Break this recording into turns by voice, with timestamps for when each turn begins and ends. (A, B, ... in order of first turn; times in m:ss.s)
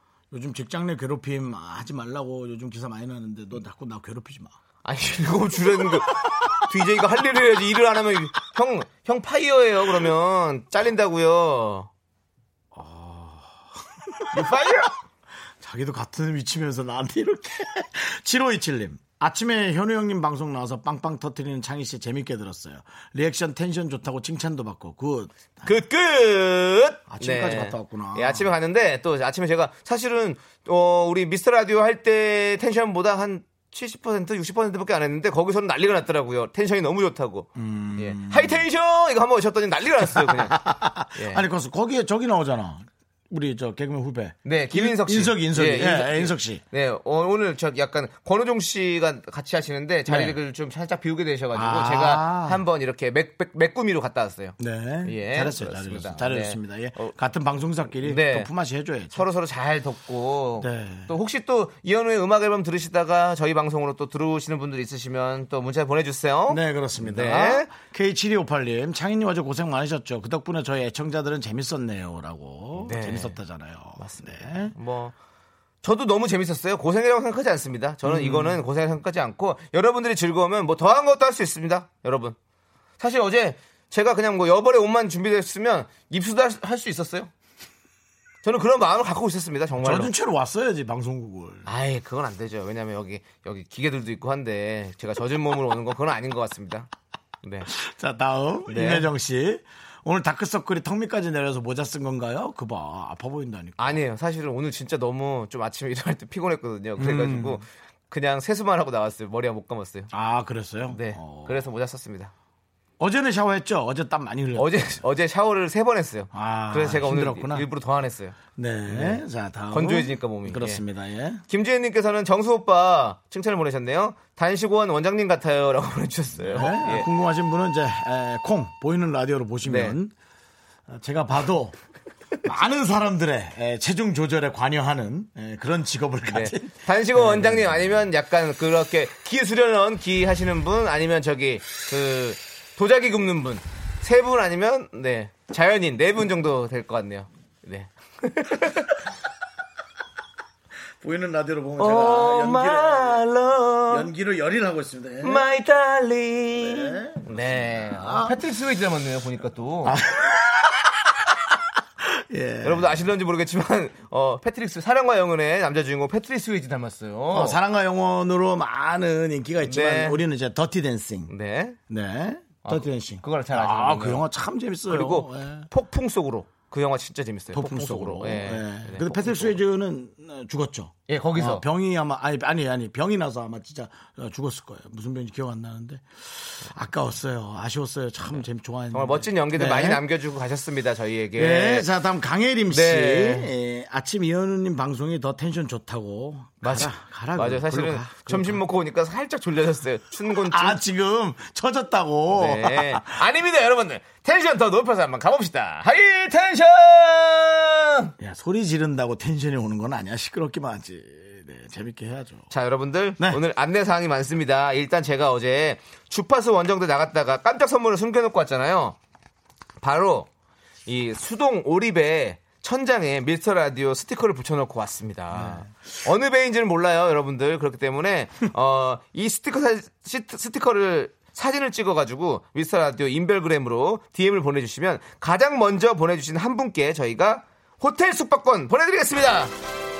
0:00.3-0:04.6 A
0:04.8-0:11.9 B
0:12.7-0:14.5 A
0:14.3-0:15.0 B
0:15.6-0:25.7 A
0:25.6-0:40.6 B
0:27.1-0:28.5 A
0:37.6-0:38.6 A
0:40.1-0:46.6 A
0:41.1-0:41.4 B
0:44.4-0:57.2 B
0:50.1-0:50.4 A
0:51.5-0:52.6 A
0:54.6-0:59.2 A
0:58.0-0:58.5 B
0:59.1-1:07.7 B
1:00.6-1:01.1 A
1:06.5-1:14.7 A
1:12.8-1:13.4 B
1:14.0-1:15.1 B
1:15.8-1:22.4 B
1:18.0-1:18.6 A
1:23.0-1:27.3 B
1:28.4-1:30.1 B
1:29.8-1:31.7 A
1:31.7-1:36.9 B
1:37.4-1:37.7 B
1:37.7-1:44.0 A
1:38.7-1:39.1 B
1:43.8-1:50.1 B
1:47.0-1:47.6 A
1:50.1-1:51.7 A
1:50.9-1:52.3 B
1:53.0-1:54.8 A
1:54.6-2:00.8 B
1:56.3-1:57.7 A
1:58.6-2:01.4 A
2:01.5-2:07.1 B
2:06.5-2:10.1 A
2:09.6-2:10.0 B
2:10.9-2:11.8 A
2:12.4-2:17.9 A
2:16.3-2:29.0 B
2:31.0-2:33.2 A
2:31.8-2:34.1 B
2:33.9-2:35.4 A
2:35.2-2:40.0 B
2:36.6-2:38.4 A
2:39.8-2:41.3 A
2:42.0-2:43.1 A
2:42.6-2:47.6 B
2:47.3-2:51.3 A
2:49.7-2:50.2 B
2:51.3-2:51.8 B
2:51.9-2:55.7 A
2:52.6-2:54.3 B
2:54.9-2:59.6 B
2:57.5-3:10.0 A
3:01.1-3:01.6 B
3:08.9-3:11.9 B
3:11.4-3:18.6 A
3:12.7-3:13.5 B
3:16.6-3:20.8 B
3:20.5-3:23.2 A
3:22.3-3:28.1 B
3:28.2-3:32.5 A
3:32.5-3:39.0 B
3:39.8-3:40.3 B
3:40.9-3:59.5 B
3:45.3-3:45.7 A